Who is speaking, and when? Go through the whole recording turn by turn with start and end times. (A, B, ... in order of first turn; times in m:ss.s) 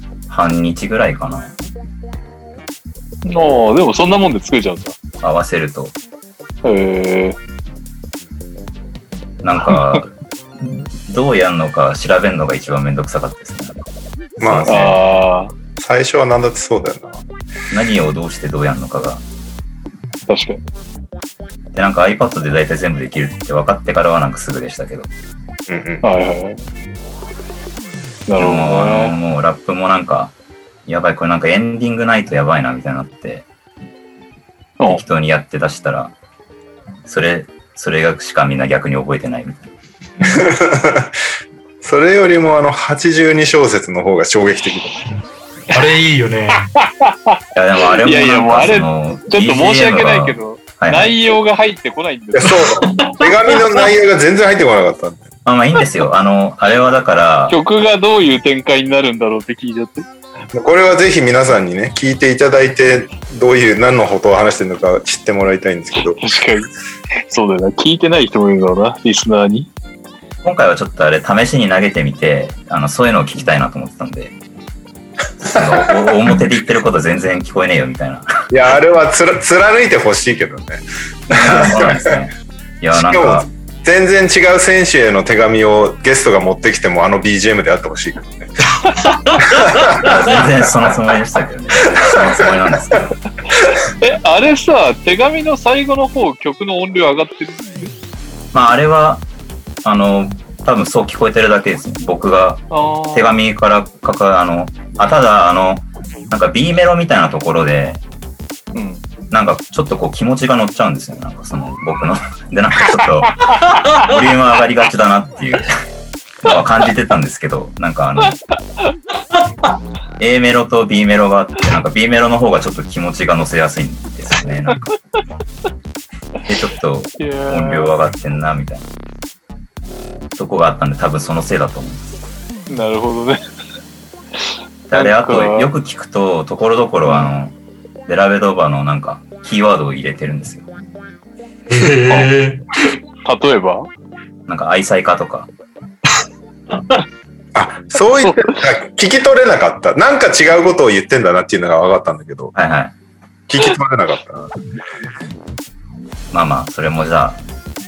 0:00.3-0:01.6 A
0:03.2-0:05.0 B
0:05.2-0:06.0 A
0:06.6-0:07.4 B
0:09.4-0:10.1 A
0:09.7-0:10.0 B
0:10.6-0:13.8 A
0:14.4-0:14.8 C
0:14.4-0:15.0 A
0:14.7-0:15.5 B
0:15.8-0:17.2 C
0:17.7-0:19.2 A
0:20.3-0:20.6 B
0:21.7-0:25.1 A
0:25.7-0:26.0 C
0:26.0-0:26.6 B
0:28.3-0:29.2 B
0:28.4-0:30.3 A
0:30.9-0:33.5 A
0:34.8-0:36.1 A
0:37.1-0:39.7 A
0:40.2-0:41.1 C
0:41.8-0:45.0 C
0:45.7-0:46.7 D
0:46.8-0:47.4 B
0:47.6-0:51.2 A
0:48.0-0:52.7 B
0:52.4-0:55.3 C
0:52.9-0:53.2 D
0:55.4-0:57.6 A
0:57.5-1:00.1 B
1:00.5-1:06.2 C
1:06.2-1:06.7 B
1:07.3-1:09.7 B
1:10.4-1:14.3 A
1:15.5-1:18.5 A
1:15.5-1:16.1 C
1:18.5-1:22.2 C
1:21.3-1:23.5 A
1:22.9-1:28.7 C
1:29.4-1:30.5 C
1:30.0-1:33.1 A
1:34.0-1:37.9 B
1:38.5-1:39.2 A
1:39.8-1:48.0 A
1:42.7-1:43.3 B
1:48.7-1:49.0 B
1:49.3-1:53.5 A
1:54.0-1:55.7 A
1:56.4-1:58.4 A
2:00.2-2:04.9 A
2:06.5-2:08.9 A
2:07.2-2:07.9 B
2:10.4-2:12.2 A
2:12.7-2:13.4 B
2:14.9-2:17.6 A
2:14.9-2:15.7 B
2:18.1-2:20.7 A
2:21.7-2:22.6 D
2:23.2-2:23.9 B
2:24.5-2:25.5 A
2:27.6-2:32.5 C
2:28.2-2:28.5 B
2:32.6-2:32.9 A
2:33.5-2:34.5 C
2:36.3-2:37.4 A